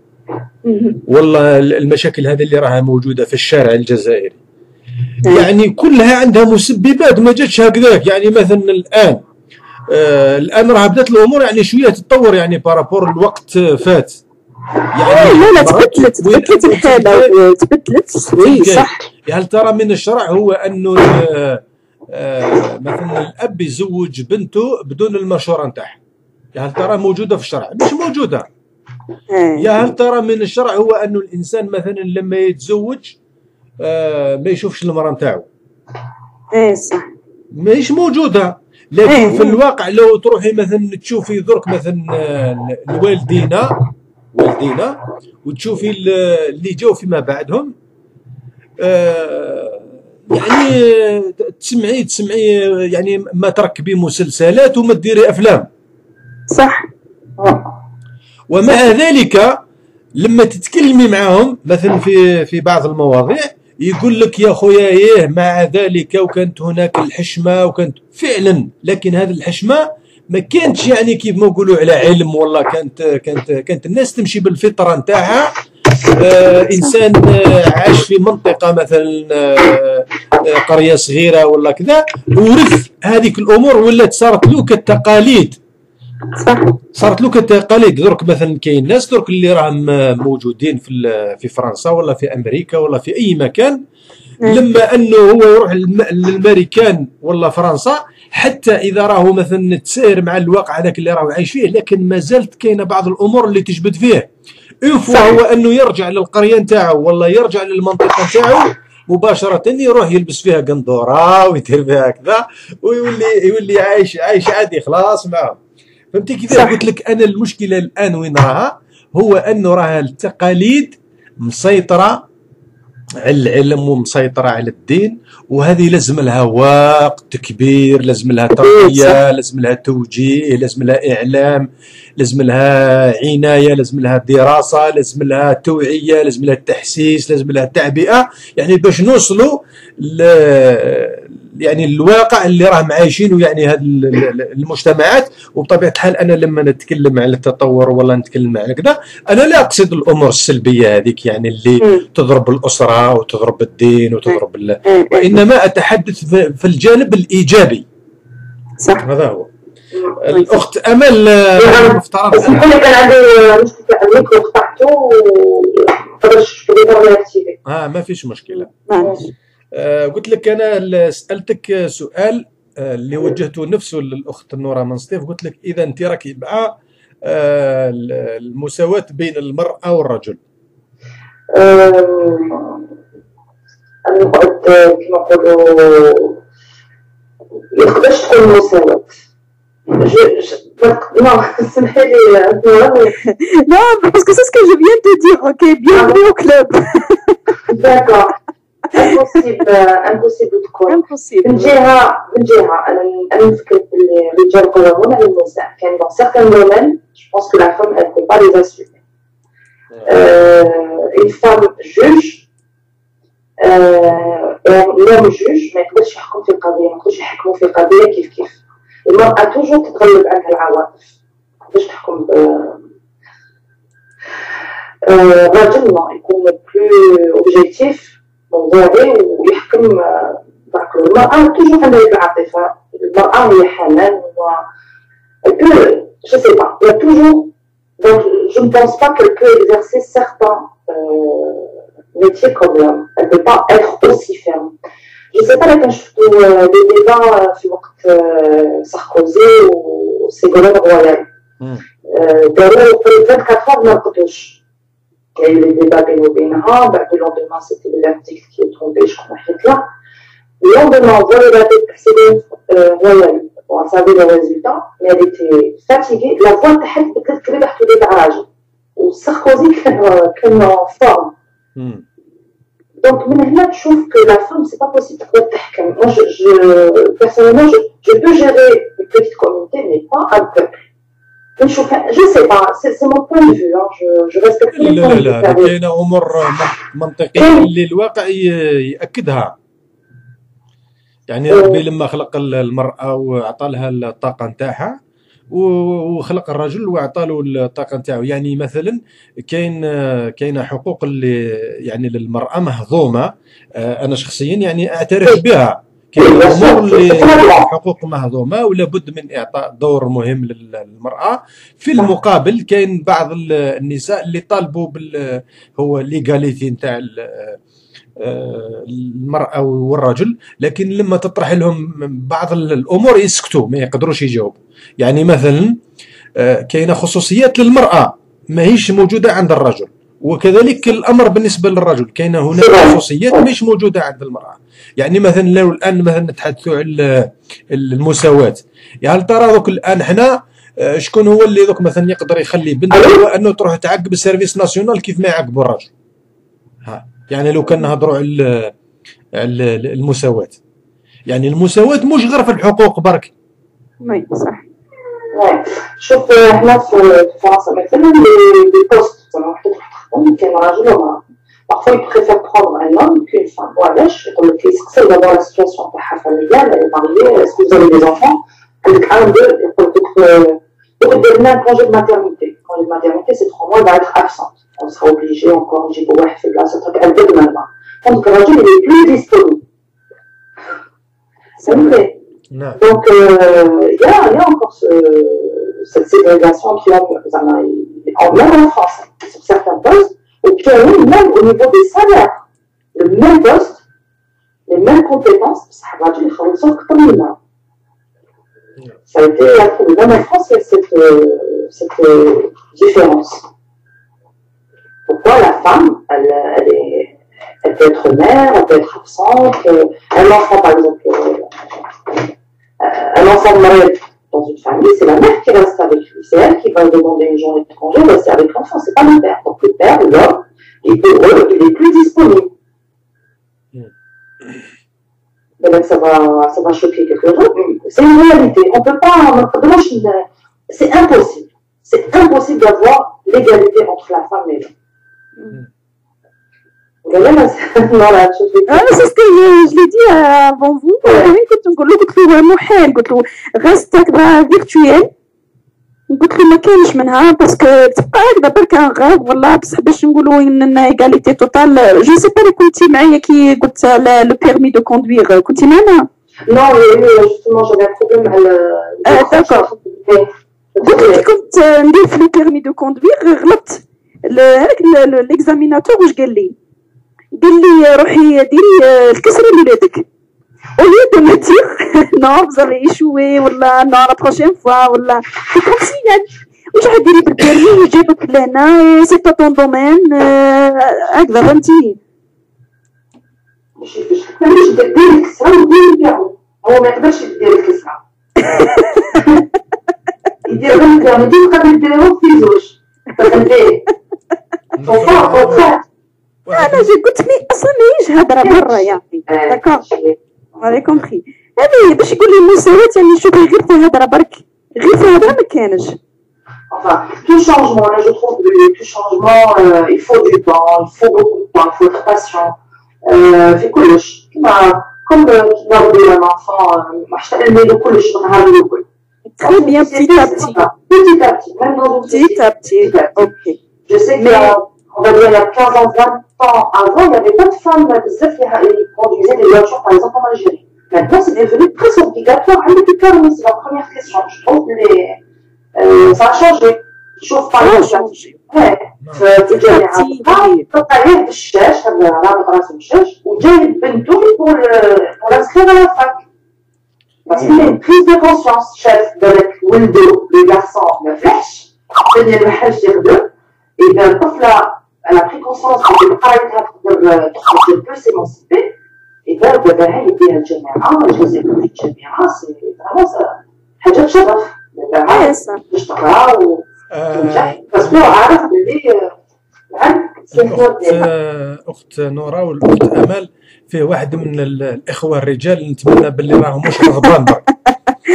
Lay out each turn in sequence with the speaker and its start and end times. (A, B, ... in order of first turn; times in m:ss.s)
0:00.6-0:01.0 A
0:01.0-0:04.4 B
0:05.3-0:09.2 B
0:09.9-0:14.2 B
0:14.9-0:17.3 B
0:15.0-0:19.0 A
0:18.4-0:21.6 B
0:22.1-0:26.0 B
0:26.6-0:28.5 B
0:29.3-0:29.7 A
0:29.6-0:33.2 B
0:33.8-0:35.5 B
0:36.5-0:37.1 A
0:37.6-0:43.8 B
0:39.0-0:39.6 A
0:44.3-0:47.7 B
0:48.8-0:55.7 B
0:56.5-0:56.9 A
0:57.4-0:57.7 C
0:58.5-0:59.6 B
1:00.2-1:15.5 B
1:16.1-1:25.6 B
1:26.4-1:26.8 A
1:27.0-1:33.8 B
1:34.4-1:44.3 B
1:44.8-1:55.6 B
1:56.1-2:02.2 B
1:56.5-1:56.8 A
2:03.2-2:37.9 B
2:08.6-2:09.2 C
2:31.8-2:32.0 A
2:34.3-2:35.3 A
2:38.8-2:39.1 A
2:39.0-2:39.5 B
2:40.2-2:42.6 B
2:41.6-2:47.6 C
2:47.6-2:48.7 B
2:48.7-2:49.2 A
2:49.0-2:49.3 C
2:49.7-3:00.4 B
3:01.5-3:02.9 C
3:04.0-3:06.4 C
3:07.7-3:09.1 C
3:09.9-3:13.2 C
3:13.2-3:17.3 A
3:15.9-3:16.2 C
3:17.7-3:18.3 C
3:18.9-3:29.0 C
3:20.9-3:21.8 A
3:29.9-3:30.2 B
3:30.1-3:32.4 C
3:33.6-3:41.1 C
3:41.7-3:42.8 C
3:45.0-3:54.6 C
3:55.4-4:04.7 C
4:05.3-4:11.3 C
4:12.1-4:14.6 C
4:15.4-4:19.9 C
4:20.6-4:31.3 C
4:31.8-4:32.0 B
4:33.0-4:40.8 C
4:41.6-4:45.7 C
4:44.7-4:49.5 B
4:47.4-4:47.7 C
4:51.3-4:55.0 B
4:51.5-4:51.8 C
4:55.5-5:17.6 B
5:06.2-5:07.7 C
5:18.2-5:25.8 B
5:26.4-5:45.9 B
5:32.6-5:33.4 C
5:42.9-5:43.2 C
5:46.8-5:48.7 B
5:49.4-5:50.6 B
5:51.3-5:53.3 B
5:54.0-5:54.6 A
5:55.3-6:19.6 C
6:21.6-6:22.1 C
6:21.6-6:22.0 A
6:22.5-6:22.8 B
6:22.8-6:32.4 C
6:33.0-6:33.8 C
6:34.7-6:37.4 C
6:39.1-6:43.5 C
6:45.1-6:52.2 C
6:52.8-7:02.5 C
7:03.7-7:04.6 B
7:05.6-7:14.7 C
7:17.0-7:19.1 C
7:18.7-7:25.1 A
7:21.0-7:21.3 C
7:26.1-7:36.1 A
7:36.5-7:41.2 C
7:39.1-7:39.7 A
7:40.8-7:46.6 A
7:47.4-7:50.0 A
7:50.8-8:02.0 A
8:03.8-8:08.0 C
8:08.6-8:09.1 A
8:10.4-8:13.8 C
8:14.7-8:15.7 B
8:14.9-8:15.8 C
8:16.4-8:16.9 B
8:16.5-8:19.8 A
8:18.4-8:20.7 C
8:20.6-8:26.0 A
8:26.7-8:38.8 C
8:39.4-8:40.6 A
8:39.4-8:43.3 C
8:42.1-8:43.6 A
8:43.9-8:55.2 C
8:44.2-8:44.6 A
8:55.8-9:06.2 C
8:57.6-8:58.4 A
8:59.0-8:59.3 B
8:59.4-9:00.6 A
9:07.3-9:18.7 C
9:19.3-9:29.2 C
9:25.1-9:25.6 A
9:26.9-9:28.1 B
9:29.7-9:31.1 C
9:30.3-9:37.4 B